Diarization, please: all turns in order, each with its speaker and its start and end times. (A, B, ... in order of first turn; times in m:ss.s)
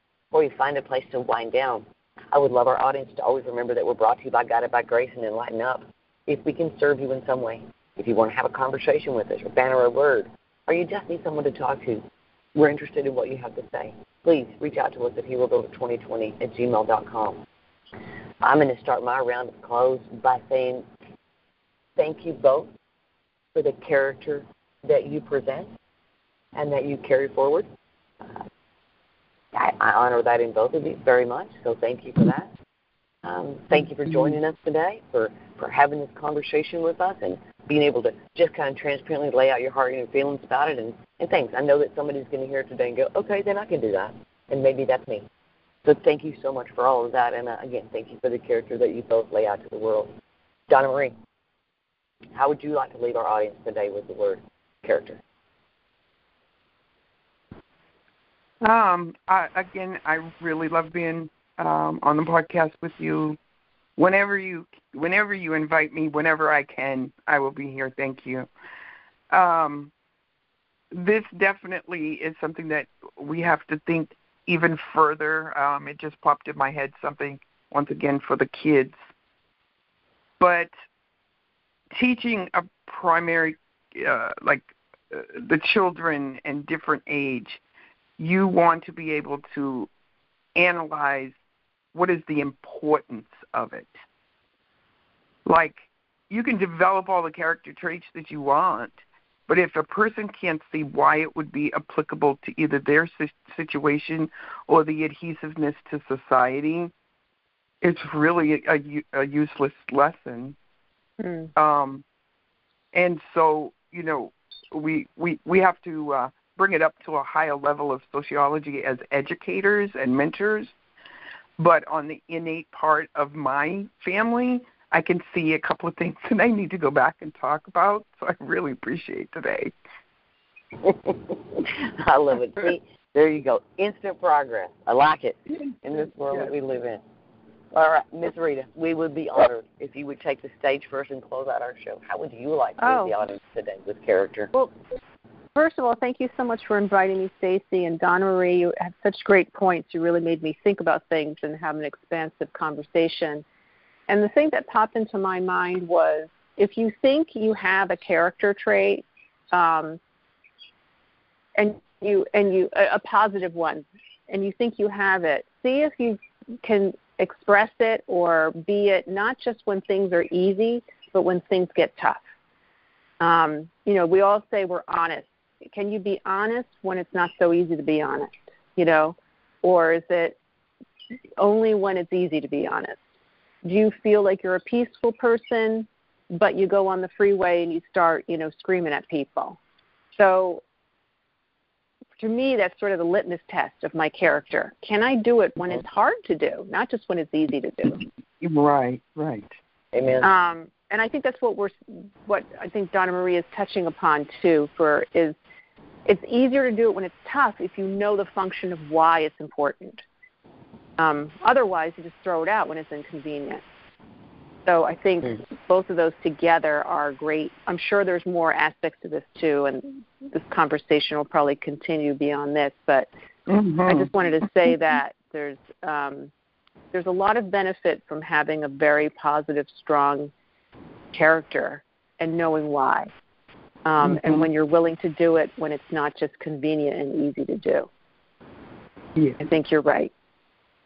0:00.3-0:12.0 A
0:12.5-0:17.4 A
0:18.4-0:20.8 A
0:22.0-0:22.7 A
0:23.5-0:25.7 A
0:26.5-0:27.6 A
0:29.5-0:32.5 A
0:33.2-0:45.2 A
0:45.8-0:50.1 A
0:50.7-0:51.1 A
0:52.3-0:55.2 A
0:58.6-1:03.4 B
1:04.0-1:08.5 B
1:09.3-1:09.9 B
1:10.9-1:19.0 B
1:20.4-1:20.7 B
1:21.9-1:27.6 B
1:28.2-1:29.9 B
1:30.5-1:31.3 B
1:31.9-1:34.0 B
1:35.4-1:46.9 B
1:47.8-1:50.6 B
1:51.6-1:52.0 B
1:52.9-2:00.7 B
2:01.6-2:09.7 B
2:10.8-2:17.0 A
2:17.7-2:24.5 A
2:22.8-2:23.1 C
2:25.5-2:33.4 C
2:34.1-2:40.0 C
2:41.6-2:52.2 C
2:53.2-3:00.4 C
3:01.4-3:03.0 C
3:03.6-3:09.6 C
3:10.1-3:10.6 C
3:12.2-3:18.0 C
3:18.4-3:19.5 B
3:19.9-3:20.3 A
3:20.2-3:25.4 C
3:26.0-3:30.0 C
3:31.0-3:33.6 C
3:34.6-3:43.1 C
3:43.5-3:44.1 B
3:43.8-3:46.3 C
3:46.9-3:50.3 C
3:51.1-3:53.1 C
3:53.8-3:57.9 C
3:54.0-3:54.5 B
3:59.4-4:00.1 C